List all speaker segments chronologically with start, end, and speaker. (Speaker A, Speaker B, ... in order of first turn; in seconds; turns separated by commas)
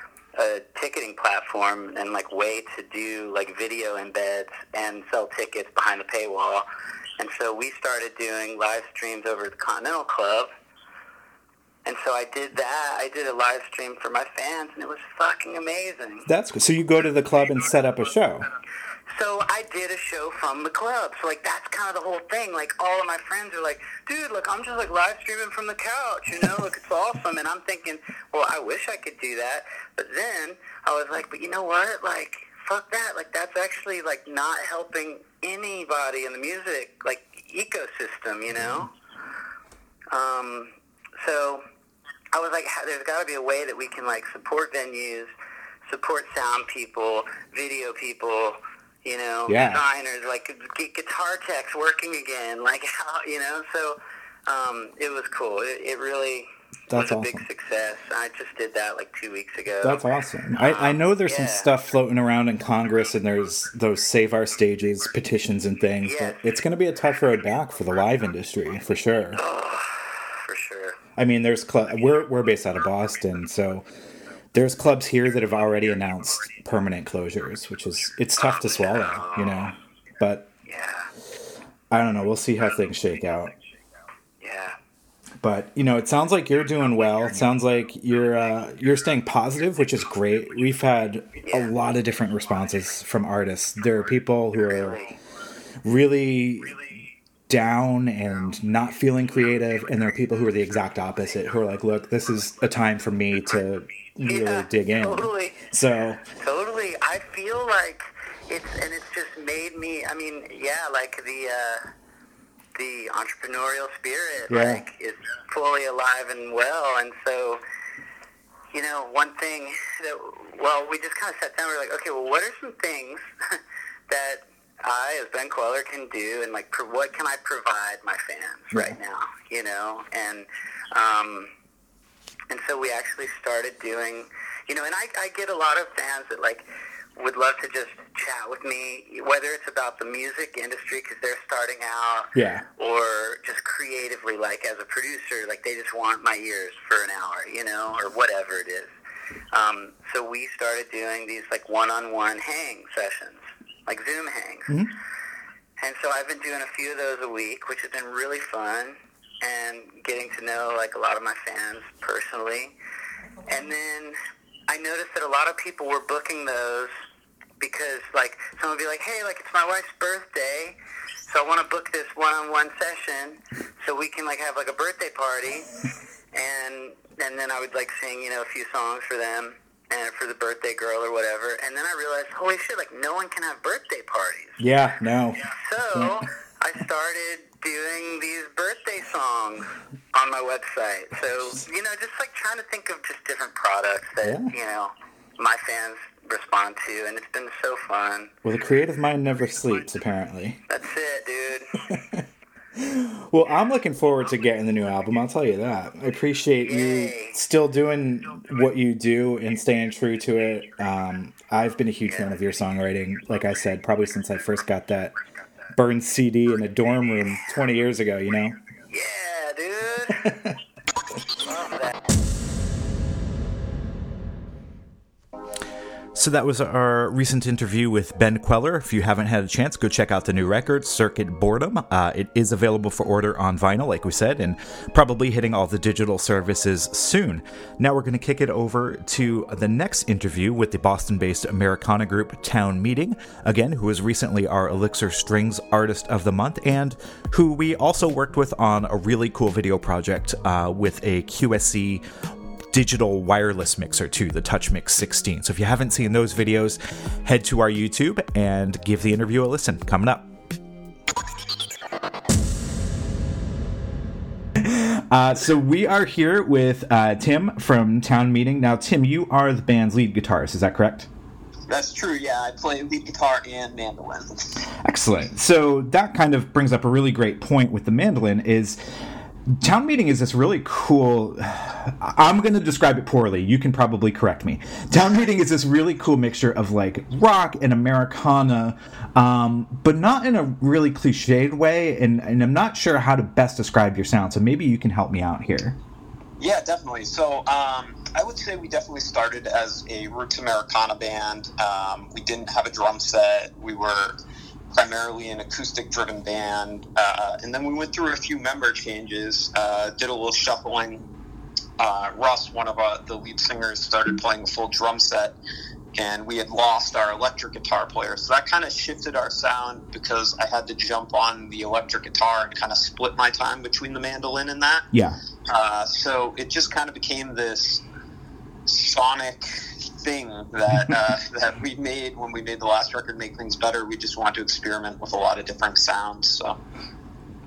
Speaker A: 0.3-6.7, Speaker A: 7.2-10.5, Speaker A: 11.8-16.3, Speaker B: 16.3-18.5, Speaker A: 19.1-38.9, Speaker A: 40.1-41.6, Speaker A: 42.3-45.3, Speaker A: 45.9-60.0, Speaker B: 49.5-49.8, Speaker B: 56.9-57.4, Speaker B: 59.8-69.4, Speaker A: 60.6-61.7, Speaker A: 66.0-66.5, Speaker A: 69.3-71.0, Speaker B: 71.2-73.9, Speaker B: 74.5-80.5, Speaker A: 78.4-79.7, Speaker A: 80.7-81.1, Speaker B: 81.9-83.5, Speaker A: 84.4-84.8, Speaker B: 85.4-95.1, Speaker A: 91.4-91.7, Speaker B: 95.8-106.2, Speaker A: 104.3-105.7, Speaker A: 106.3-111.8, Speaker A: 112.8-117.6, Speaker B: 114.5-114.8, Speaker A: 118.7-131.5, Speaker A: 132.5-136.7, Speaker A: 137.2-148.9, Speaker B: 142.3-142.7, Speaker A: 149.5-154.8, Speaker A: 155.8-162.7, Speaker A: 163.5-164.2, Speaker A: 164.7-166.9, Speaker A: 167.6-175.7, Speaker A: 176.3-184.6, Speaker B: 184.6-186.2, Speaker A: 185.4-198.3, Speaker B: 194.2-194.5, Speaker B: 198.4-200.6, Speaker A: 200.7-201.8, Speaker B: 201.8-202.2, Speaker B: 202.8-215.2, Speaker A: 206.6-207.3, Speaker B: 215.7-218.6, Speaker A: 218.9-220.3, Speaker B: 220.2-220.5, Speaker A: 221.3-222.0, Speaker B: 226.2-252.0, Speaker B: 252.7-260.3, Speaker B: 264.6-271.1, Speaker C: 271.7-274.6, Speaker B: 274.8-278.8, Speaker B: 279.5-295.8, Speaker C: 296.4-304.2, Speaker C: 304.7-311.1, Speaker C: 311.8-315.4, Speaker C: 315.9-324.9, Speaker B: 324.9-325.2, Speaker C: 325.5-327.8, Speaker C: 328.7-336.6